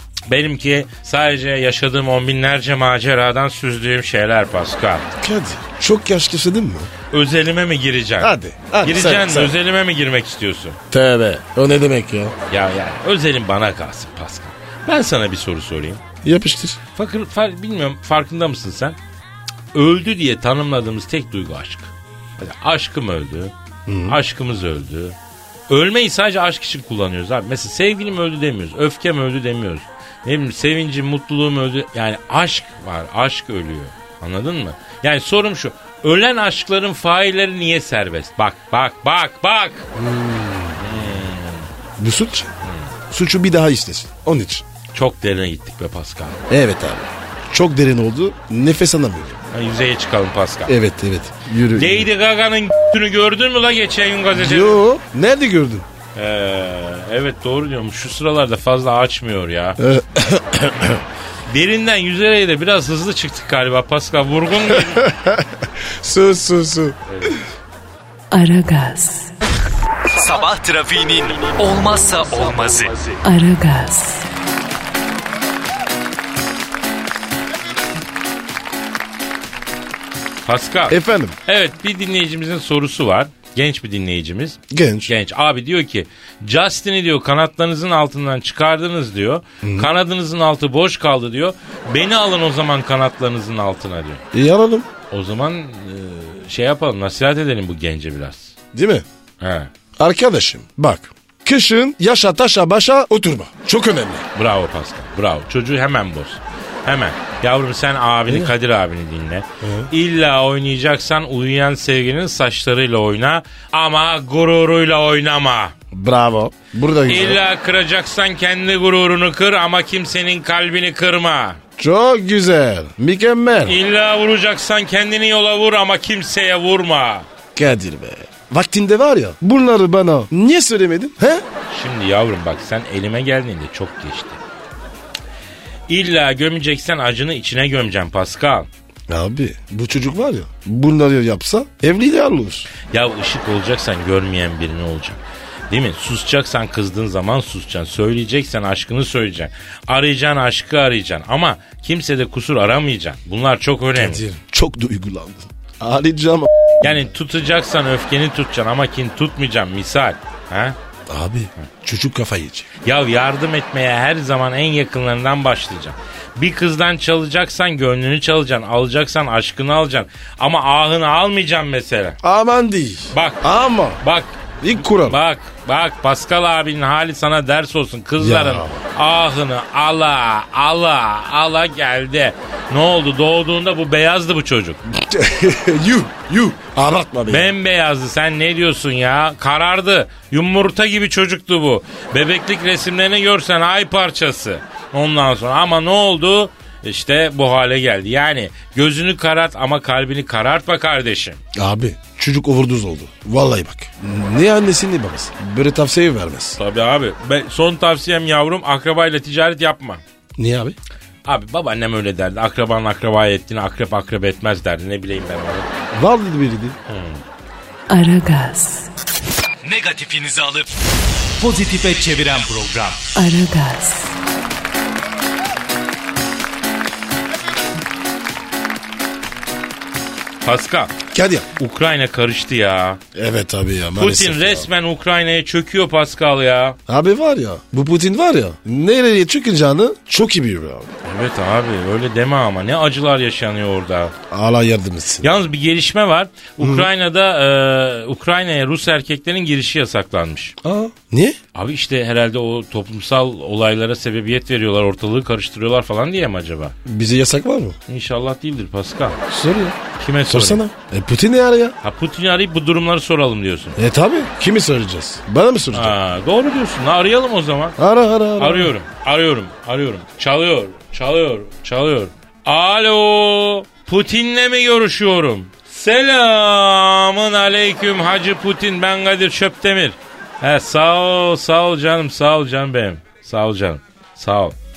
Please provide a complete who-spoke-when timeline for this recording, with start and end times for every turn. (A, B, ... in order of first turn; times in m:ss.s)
0:00.3-0:05.1 A
0:05.2-0:06.9 B
0:07.1-0:10.8 A
0:08.2-0:09.6 B
0:10.9-0:12.4 B
0:12.5-0:16.0 A
0:16.2-0:16.8 B
0:17.0-0:19.0 A
0:19.7-0:23.5 A
0:23.9-0:24.2 B
0:24.1-0:25.2 A
0:25.7-0:39.9 A
0:40.0-0:41.0 B
0:40.8-0:41.7 A
0:42.0-0:42.5 B
0:42.6-0:42.9 A
0:43.1-0:44.6 B
0:44.9-0:46.4 A
0:46.5-0:49.4 B
0:49.5-0:50.8 A
0:50.7-0:52.1 B
0:51.7-0:54.8 A
0:54.4-0:55.9 B
0:56.2-0:59.8 A
0:59.8-1:01.0 B
1:01.5-1:05.1 A
1:04.7-1:07.4 B
1:07.1-1:07.4 A
1:08.3-1:09.3 C
1:10.1-1:13.2 D
1:13.2-1:14.3 C
1:20.5-1:34.2 A
1:20.9-1:21.4 B
1:24.7-1:25.1 B
1:29.6-1:29.9 B
1:34.3-1:34.9 B
1:35.1-1:38.6 A
1:38.7-1:39.0 B
1:39.4-1:39.7 A
1:40.0-1:44.3 B
1:44.4-1:55.7 A
1:48.3-1:48.5 B
1:49.6-1:49.9 B
1:55.9-1:57.4 B
1:57.1-2:01.6 A
2:01.8-2:03.8 B
2:03.6-2:07.3 A
2:07.6-2:11.4 B
2:11.7-2:14.4 A
2:15.9-2:18.7 A
2:19.1-2:22.7 B
2:22.9-2:34.2 A
2:34.0-2:37.0 B
2:36.8-2:40.8 A
2:41.1-2:42.7 B
2:42.8-2:52.2 A
2:52.2-2:54.0 B
2:53.1-2:53.4 A
2:54.0-3:04.8 A
2:54.6-2:55.2 B
2:58.2-2:58.8 B
3:04.9-3:07.5 B
3:07.3-3:21.4 A
3:21.5-3:26.6 B
3:26.6-3:30.0 A
3:30.4-3:30.8 B
3:31.2-3:35.7 A
3:35.9-3:36.8 B
3:36.9-3:37.2 A
3:37.9-3:38.9 C
3:39.6-3:40.7 D
3:41.4-3:43.1 D
3:43.2-3:44.2 C
3:50.4-3:51.0 A
3:51.1-3:51.5 B
3:51.6-3:53.0 A
3:53.1-3:54.7 B
3:54.0-3:56.8 A
3:56.9-4:00.9 B
4:01.0-4:04.1 A
4:04.3-4:05.4 B
4:05.2-4:10.6 A
4:06.6-4:06.9 B
4:10.6-4:11.4 B
4:11.6-4:16.8 A
4:16.8-4:17.8 B
4:17.9-4:19.2 A
4:19.3-4:19.8 B
4:20.0-4:20.6 A
4:20.3-4:21.8 B
4:21.8-4:23.8 A
4:23.8-4:26.0 B
4:25.7-4:27.8 A
4:27.8-4:28.7 B
4:28.4-4:44.6 A